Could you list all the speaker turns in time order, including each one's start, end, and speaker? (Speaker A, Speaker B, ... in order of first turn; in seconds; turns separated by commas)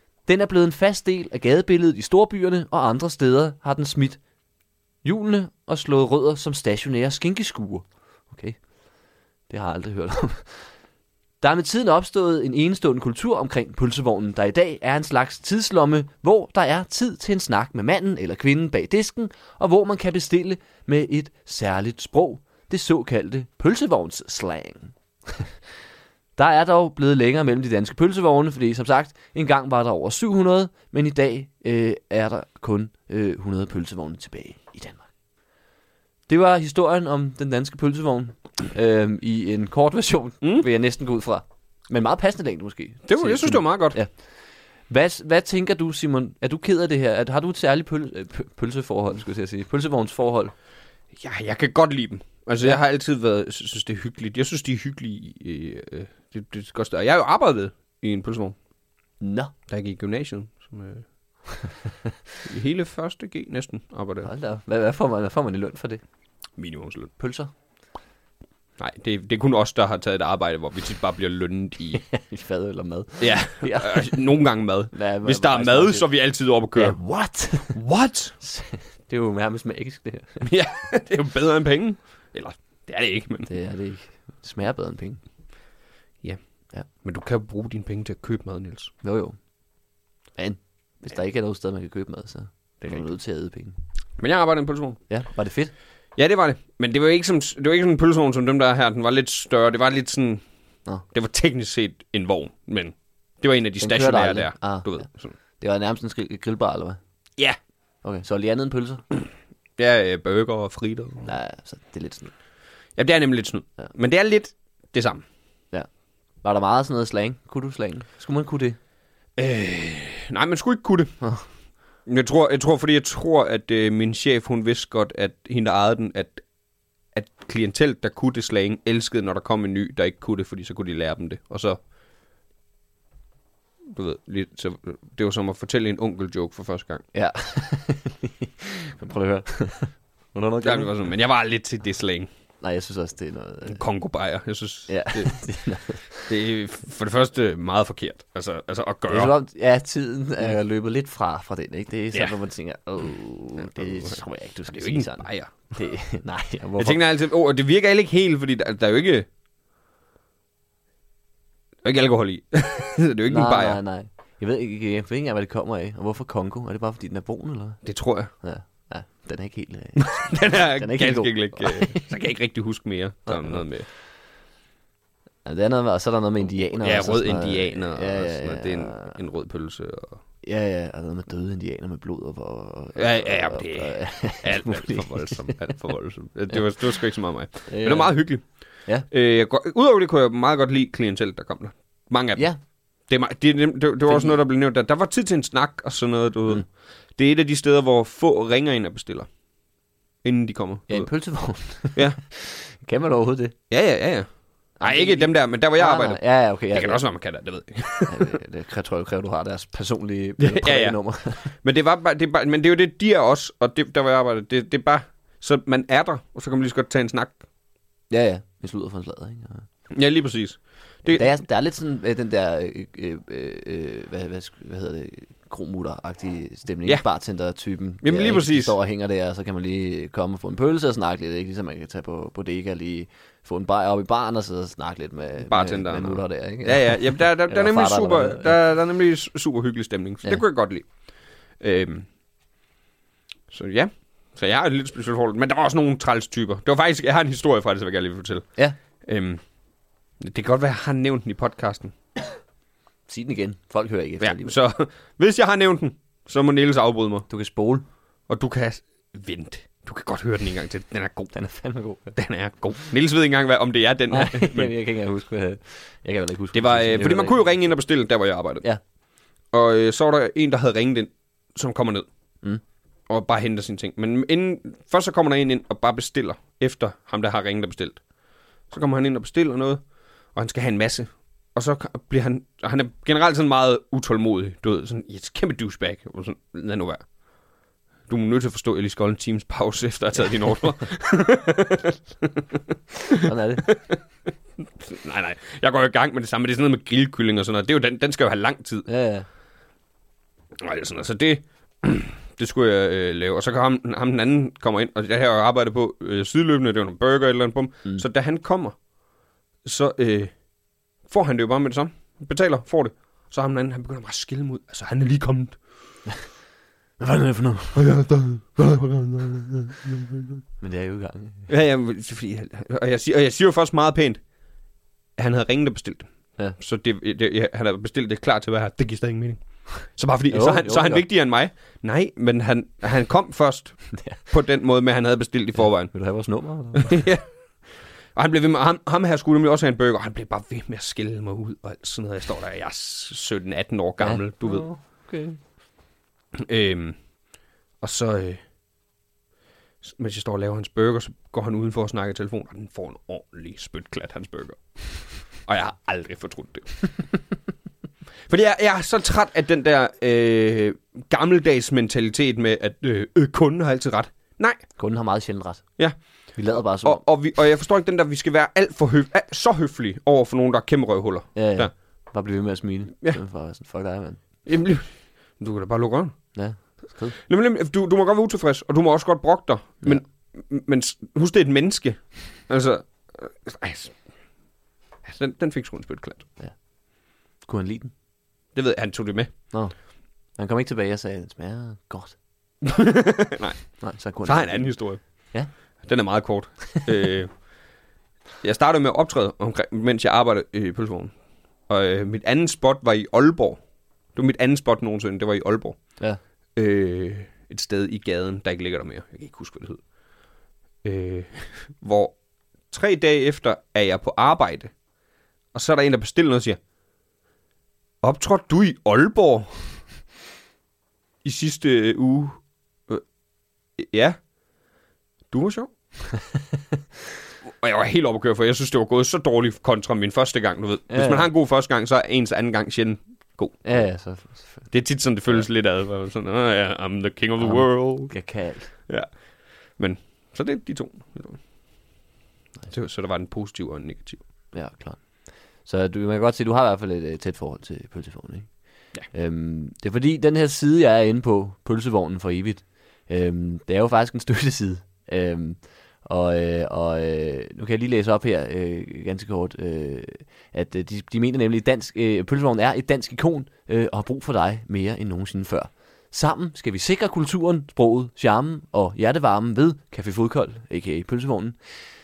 Speaker A: 0.2-4.2, Speaker A: 5.0-8.6, Speaker A: 9.5-10.7, Speaker A: 11.4-25.5, Speaker A: 26.4-35.1, Speaker A: 36.3-44.3, Speaker B: 43.1-44.0, Speaker A: 44.9-50.5, Speaker B: 51.1-58.5, Speaker A: 59.2-59.5, Speaker B: 59.7-61.0, Speaker B: 62.4-64.3, Speaker A: 64.2-66.0, Speaker B: 66.6-67.1, Speaker A: 67.2-67.5, Speaker B: 68.8-72.0, Speaker A: 72.0-74.2, Speaker B: 73.2-77.0, Speaker A: 74.9-76.1, Speaker A: 76.7-77.8, Speaker B: 77.7-78.3, Speaker A: 78.4-80.5, Speaker B: 80.4-83.5, Speaker A: 83.5-85.2, Speaker B: 86.2-88.9, Speaker A: 89.0-89.4, Speaker A: 90.4-93.8, Speaker B: 92.8-93.0, Speaker B: 94.2-95.0, Speaker A: 95.1-95.7, Speaker B: 96.2-100.4, Speaker B: 101.1-105.3, Speaker A: 103.8-105.0, Speaker A: 105.6-107.0, Speaker A: 108.0-109.0, Speaker B: 109.8-111.3, Speaker A: 111.2-112.3, Speaker B: 113.0-115.2, Speaker A: 116.4-118.8, Speaker B: 119.3-121.2, Speaker B: 122.0-126.4, Speaker B: 127.1-131.8, Speaker B: 133.9-137.0, Speaker A: 137.1-141.0, Speaker B: 140.6-142.3, Speaker A: 142.6-143.8, Speaker B: 143.7-145.4, Speaker A: 144.9-146.3, Speaker B: 146.3-149.3, Speaker A: 149.1-157.0, Speaker B: 153.8-154.2, Speaker B: 154.7-155.5, Speaker B: 156.8-159.3, Speaker B: 161.8-163.8, Speaker A: 163.3-172.1, Speaker B: 167.8-168.3, Speaker B: 169.9-173.9, Speaker A: 173.3-173.7, Speaker A: 175.4-179.1, Speaker B: 176.8-180.2, Speaker A: 180.4-185.7, Speaker B: 182.9-192.4, Speaker A: 187.7-188.2, Speaker B: 193.0-199.3, Speaker A: 194.1-194.3, Speaker B: 200.2-201.1, Speaker A: 200.9-203.6, Speaker B: 203.7-208.3, Speaker A: 204.8-207.0, Speaker A: 208.1-211.5, Speaker B: 210.4-217.4, Speaker A: 218.1-219.7, Speaker B: 219.9-221.3, Speaker A: 221.1-238.5, Speaker B: 228.0-228.7, Speaker B: 235.5-240.9, Speaker B: 241.6-242.1, Speaker B: 243.5-248.5, Speaker B: 249.0-249.4, Speaker B: 250.2-251.9, Speaker A: 253.1-254.6, Speaker B: 254.2-257.3, Speaker A: 257.3-257.8, Speaker B: 258.3-261.3, Speaker A: 261.3-262.1, Speaker B: 262.1-264.7, Speaker A: 264.1-267.4, Speaker B: 266.5-268.6, Speaker B: 269.5-272.1, Speaker B: 273.1-278.0, Speaker B: 278.7-287.1, Speaker B: 288.1-294.0, Speaker A: 293.2-293.6, Speaker B: 294.6-298.9, Speaker A: 298.9-299.2, Speaker B: 300.6-308.8, Speaker B: 309.6-310.3, Speaker B: 311.1-315.8, Speaker A: 317.0-318.0, Speaker B: 317.8-319.2, Speaker A: 320.6-321.5, Speaker B: 321.5-324.2, Speaker B: 325.2-335.9, Speaker A: 330.3-331.0, Speaker A: 333.9-334.2, Speaker A: 335.9-337.0, Speaker B: 336.7-337.3, Speaker B: 338.1-344.7, Speaker A: 344.0-345.4, Speaker B: 346.3-347.0, Speaker B: 347.8-348.4, Speaker B: 349.8-357.0, Speaker B: 358.3-364.7, Speaker A: 364.8-367.0, Speaker B: 365.8-371.7, Speaker A: 371.3-374.2, Speaker B: 374.4-376.2, Speaker A: 376.3-377.1, Speaker B: 377.2-384.0, Speaker B: 385.0-386.3, Speaker A: 386.4-387.9, Speaker B: 388.5-389.3, Speaker A: 390.3-392.2, Speaker B: 392.6-395.0, Speaker A: 393.8-394.7, Speaker B: 395.8-397.4, Speaker B: 398.4-401.1, Speaker B: 401.7-403.6, Speaker B: 404.1-405.9, Speaker B: 406.6-409.8, Speaker B: 410.8-412.2, Speaker B: 412.7-414.7, Speaker B: 415.5-416.6, Speaker B: 418.0-419.7, Speaker B: 421.2-423.0, Speaker B: 423.8-424.2, Speaker B: 425.3-425.7, Speaker B: 427.4-433.8, Speaker A: 430.9-431.3, Speaker A: 433.6-434.7, Speaker B: 434.7-438.2, Speaker A: 437.4-438.7, Speaker B: 438.9-441.4, Speaker B: 442.7-444.2, Speaker A: 444.5-471.6